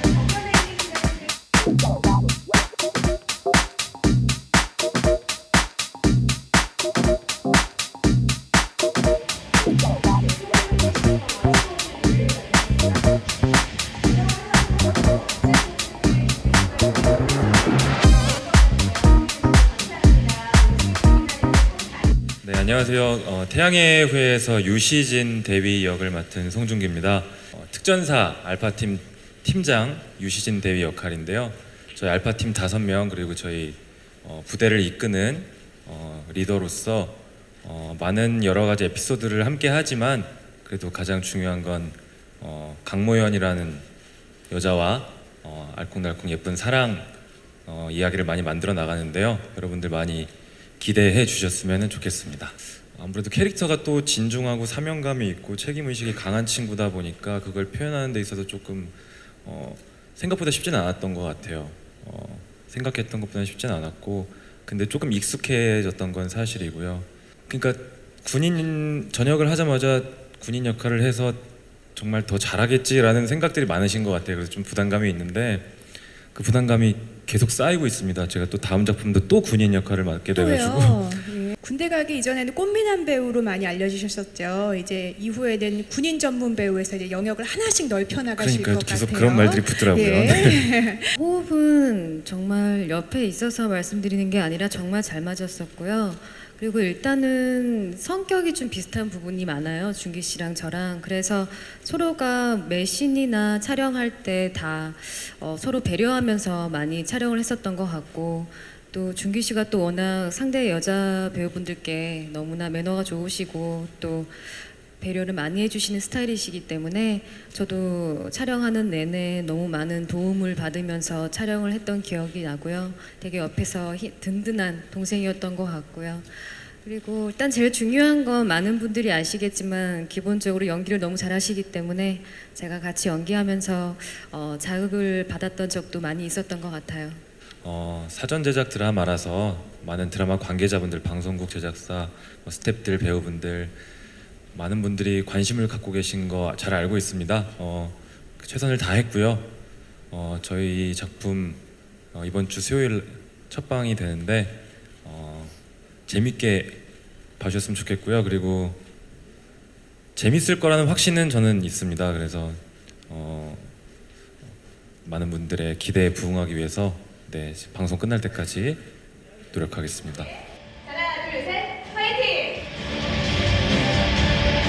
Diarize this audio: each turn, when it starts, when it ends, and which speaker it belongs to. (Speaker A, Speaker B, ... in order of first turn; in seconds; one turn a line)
Speaker A: 0.4-1.0
Speaker A: 10.7-12.9
Speaker A: 15.4-17.6
Speaker A: 18.2-22.1
Speaker B: 22.4-43.9
Speaker B: 44.5-47.1
Speaker B: 47.6-71.4
Speaker B: 71.9-75.7
Speaker B: 76.3-81.0
Speaker C: 80.3-91.1
Speaker B: 88.4-90.7
Speaker D: 91.1-137.2
Speaker B: 137.6-143.8
Speaker B: 144.5-149.5
Speaker B: 150.1-151.6
Speaker B: 152.1-155.6
Speaker B: 156.1-156.8
Speaker B: 157.4-158.8
Speaker B: 160.2-163.7
Speaker B: 165.0-168.8
Speaker B: 169.5-170.4
Speaker A: 170.9-172.6